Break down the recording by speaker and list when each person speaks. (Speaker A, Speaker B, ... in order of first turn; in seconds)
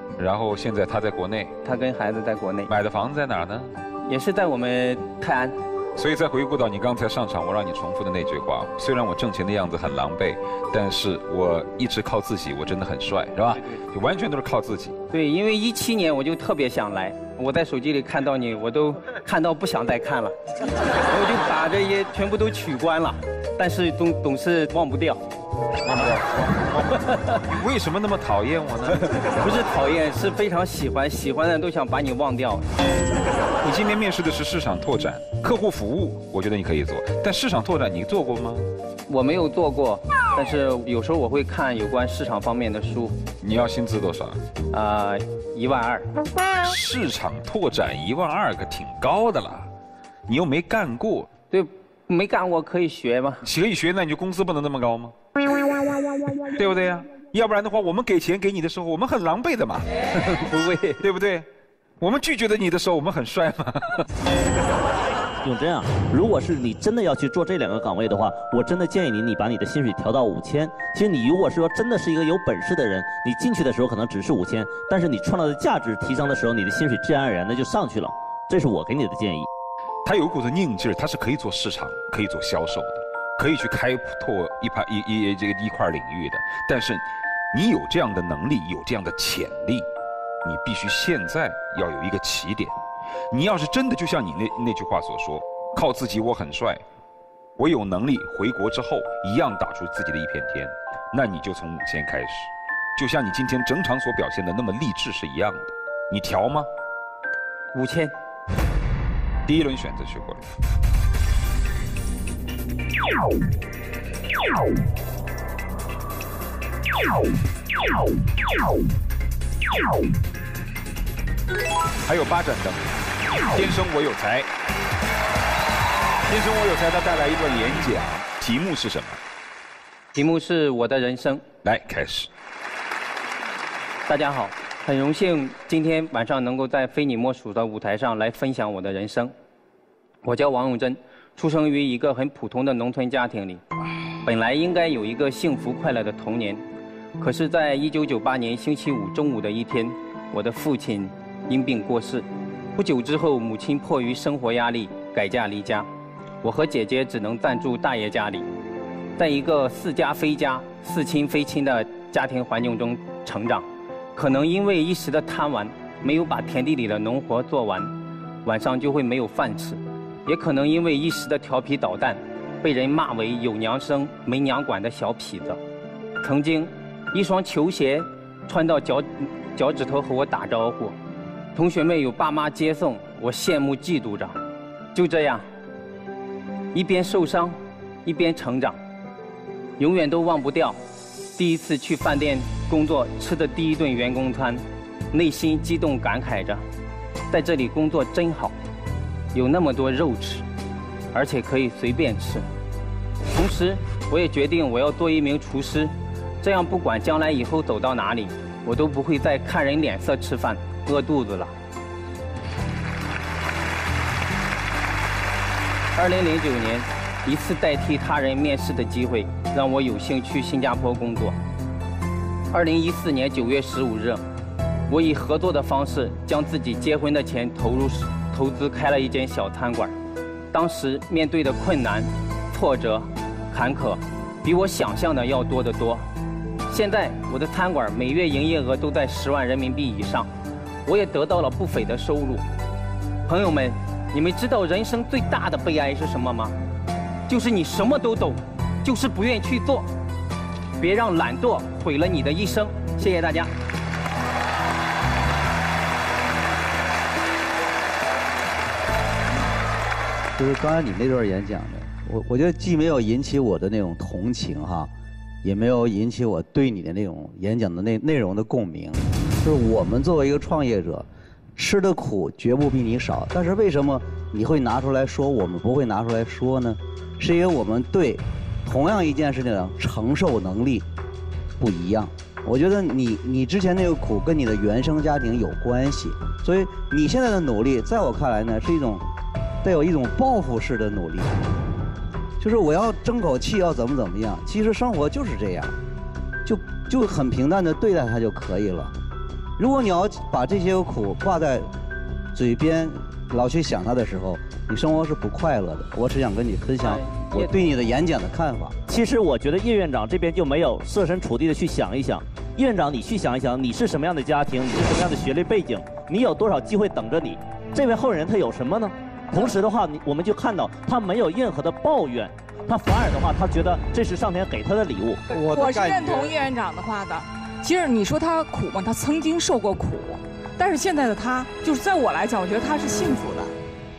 Speaker A: 0.2-1.5, 2.7-3.7, 6.0-15.0, 27.5-29.3, 33.6-38.7, 43.4-44.4, 46.6-49.7, 50.3-51.3, 53.4-55.1, 56.4-60.2, 61.0-61.5, 62.0-64.0, 80.0-89.8, 90.5-92.7, 93.3-96.8, 97.6-106.7, 109.5-110.5, 122.0-124.5, 126.3-129.2, 131.6-132.3
Speaker B: 1.6-2.7, 4.1-5.5, 15.1-20.3, 21.1-25.2, 26.9-27.2, 29.4-32.7, 39.1-43.2, 44.7-46.1, 51.5-53.4, 60.5-61.0, 107.7-108.1, 130.2-131.4, 134.1-139.3, 140.2-143.6, 144.2-146.6, 147.2-155.9, 156.4-158.4, 159.2-163.7, 164.2-167.9, 168.4-175.6, 176.2-181.0, 181.5-184.4, 184.9-185.4, 186.7-188.8, 189.8-190.8, 191.4-196.6, 197.3-198.5, 199.3-200.4, 201.1-202.4, 203.3-211.5, 215.9-221.3, 222.5-224.2, 224.9-229.9, 230.5-236.0, 236.7-240.3, 240.8-242.4, 243.3-246.6, 247.3-249.9, 250.8-253.5, 306.8-307.5
Speaker C: 65.4-79.5, 308.9-325.2
Speaker D: 260.4-264.9, 265.4-280.9, 281.6-289.0, 289.6-291.4, 292.4-295.7, 296.4-298.9, 299.6-301.7, 302.3-308.8, 325.4-326.1
Speaker E: 325.4-333.5